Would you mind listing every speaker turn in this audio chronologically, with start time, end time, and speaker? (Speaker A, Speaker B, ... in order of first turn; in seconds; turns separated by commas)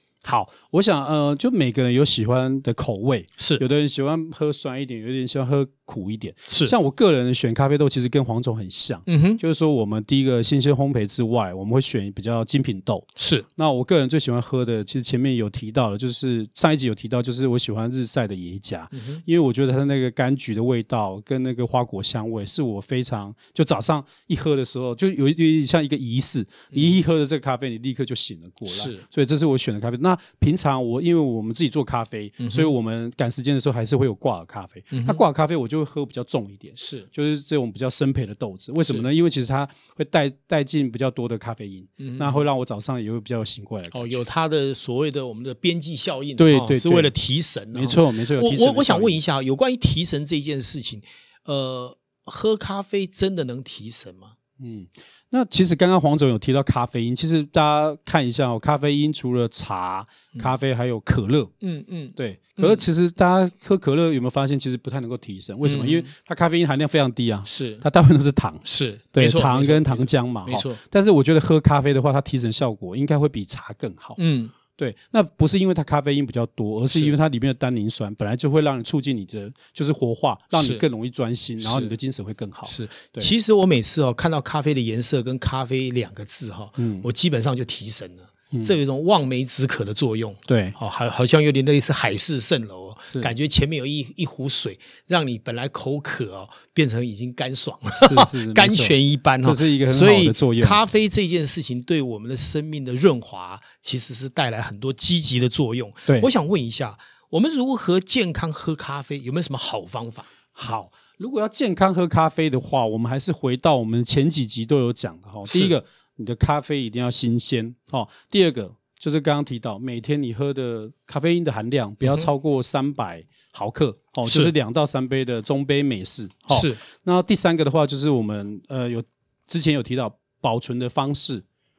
Speaker A: 0.2-44.2, Speaker B: 3.4-3.6, Speaker B: 6.5-6.7, Speaker B: 9.1-9.4, Speaker B: 13.2-13.5, Speaker B: 18.9-19.2, Speaker B: 26.7-27.0, Speaker B: 28.7-29.0, Speaker B: 32.4-32.7, Speaker B: 34.9-35.2, Speaker B: 36.8-37.1, Speaker B: 42.0-42.5, Speaker B: 43.9-54.3, Speaker A: 46.4-47.1, Speaker A: 47.7-49.2, Speaker A: 54.6-61.5, Speaker B: 61.6-62.8, Speaker A: 62.2-68.6, Speaker B: 65.6-66.1, Speaker B: 67.5-67.8, Speaker B: 68.6-70.8, Speaker A: 69.1-74.2, Speaker B: 74.2-74.5, Speaker A: 74.8-83.3, Speaker B: 76.9-77.2, Speaker B: 80.5-80.8, Speaker B: 81.6-81.9, Speaker B: 82.7-110.3, Speaker A: 86.8-87.1, Speaker A: 90.5-90.8, Speaker A: 98.0-100.8, Speaker A: 110.6-131.4, Speaker B: 115.5-115.8, Speaker B: 124.2-124.5, Speaker B: 126.5-126.8